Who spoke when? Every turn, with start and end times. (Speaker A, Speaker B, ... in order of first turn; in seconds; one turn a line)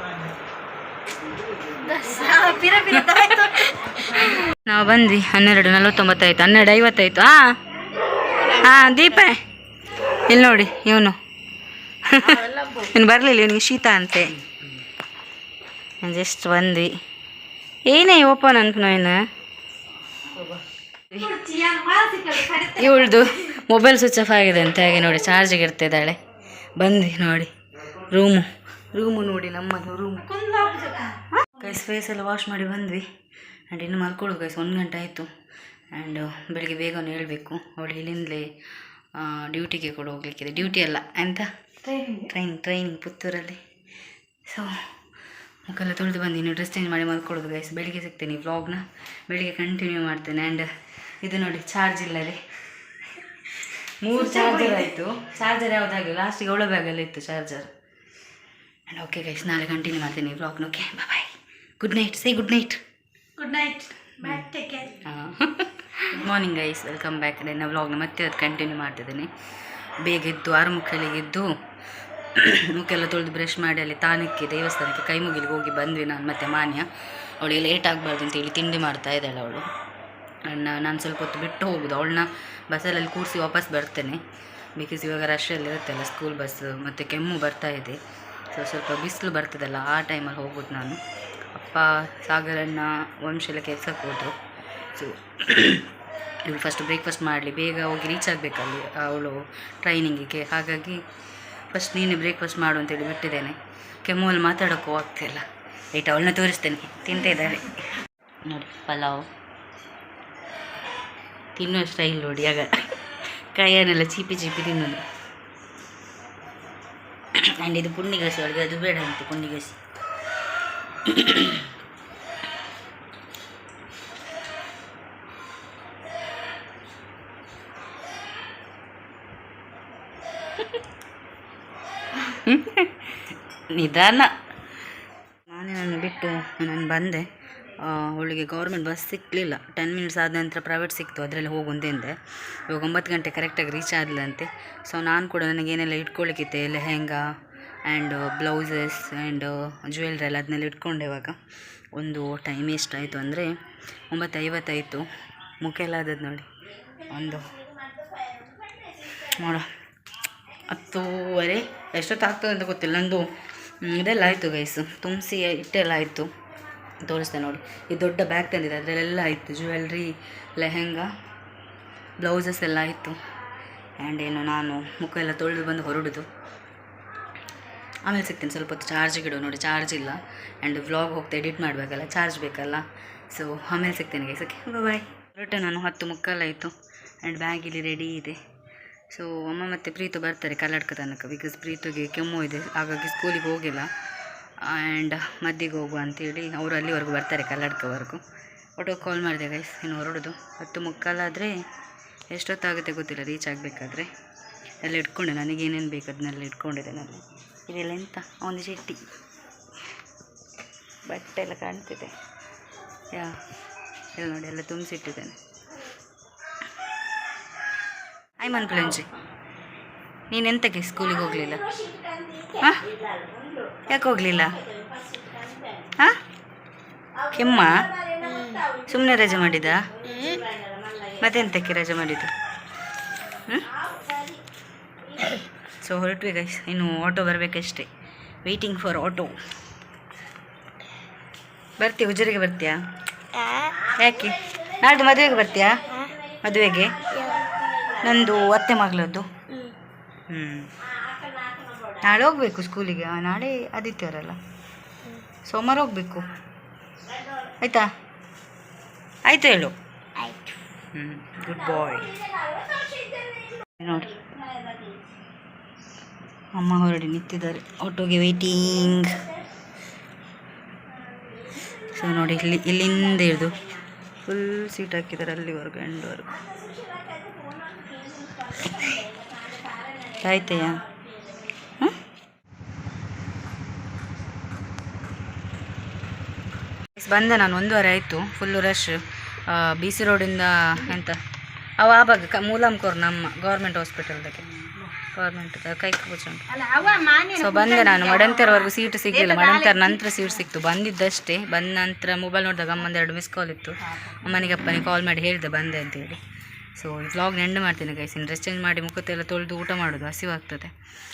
Speaker A: 1.8-4.3
Speaker B: 2.9-7.6
Speaker B: 8.4-9.4
Speaker B: 10.3-11.2
Speaker B: 12.0-14.4
Speaker A: 12.3-12.8
Speaker B: 16.0-16.9
Speaker B: 17.9-19.2
Speaker B: 21.1-21.4
Speaker A: 21.2-23.0
Speaker B: 22.5-26.2
Speaker B: 26.8-27.5
Speaker B: 28.1-30.3
Speaker A: 30.2-31.2
Speaker B: 31.3-33.0
Speaker B: 33.7-35.3
Speaker B: 35.9-38.5
Speaker B: 39.1-41.5
Speaker A: 41.9-42.2
Speaker B: 42.1-43.6
Speaker B: 44.5-44.7
Speaker B: 45.6-50.7
Speaker B: 51.2-52.4
Speaker B: 53.1-57.7
Speaker B: 58.9-62.8
Speaker A: 63.4-65.0
Speaker B: 64.2-64.5
Speaker B: 65.0-69.3
Speaker B: 70.0-71.5
Speaker B: 72.3-76.9
Speaker B: 77.4-79.7
Speaker B: 80.5-84.2
Speaker B: 84.8-88.0
Speaker B: 88.5-91.0
Speaker B: 91.5-94.3
Speaker B: 94.9-95.9
Speaker B: 96.5-101.0
Speaker B: 101.7-109.3
Speaker B: 111.5-112.7
Speaker B: 113.5-115.0
Speaker B: 117.4-119.8
Speaker B: 121.0-121.7
Speaker B: 132.2-134.3
Speaker B: 135.5-147.2
Speaker B: 147.9-151.4
Speaker B: 151.9-153.5
Speaker B: 154.1-155.1
Speaker B: 155.6-156.5
Speaker B: 157.1-157.6
Speaker B: 159.1-159.7
Speaker B: 160.7-163.3
Speaker B: 163.8-166.3
Speaker B: 167.0-171.1
Speaker B: 172.2-173.2
Speaker B: 174.0-176.2
Speaker B: 178.0-188.4
Speaker B: 189.1-193.9
Speaker B: 194.6-198.2
Speaker B: 198.8-201.5
Speaker B: 202.3-204.1
Speaker B: 204.8-209.1
Speaker B: 211.1-212.1
Speaker B: 213.1-213.4
Speaker B: 214.1-215.3
Speaker B: 218.4-219.1
Speaker B: 220.3-221.8
Speaker B: 222.5-222.9
Speaker B: 223.8-224.7
Speaker A: 225.1-225.6
Speaker B: 227.3-230.0
Speaker A: 228.2-228.7
Speaker A: 230.0-230.6
Speaker B: 231.1-232.3
Speaker B: 233.3-233.7
Speaker B: 235.8-237.9
Speaker B: 238.4-239.4
Speaker B: 241.8-242.8
Speaker B: 243.9-247.3
Speaker A: 247.2-247.5
Speaker B: 247.9-249.3
Speaker B: 250.3-250.7
Speaker B: 252.0-254.4
Speaker B: 255.4-256.3
Speaker B: 257.6-257.9
Speaker B: 259.2-259.7
Speaker B: 260.9-262.2
Speaker A: 262.6-263.4
Speaker B: 263.8-264.2
Speaker B: 266.5-269.3
Speaker B: 271.8-273.7
Speaker B: 274.2-276.4
Speaker A: 276.6-278.4
Speaker A: 279.2-279.7
Speaker B: 280.1-280.9
Speaker B: 286.9-291.2
Speaker B: 291.8-296.6
Speaker A: 296.5-298.5
Speaker B: 297.3-306.2
Speaker A: 299.2-299.9
Speaker B: 306.8-310.7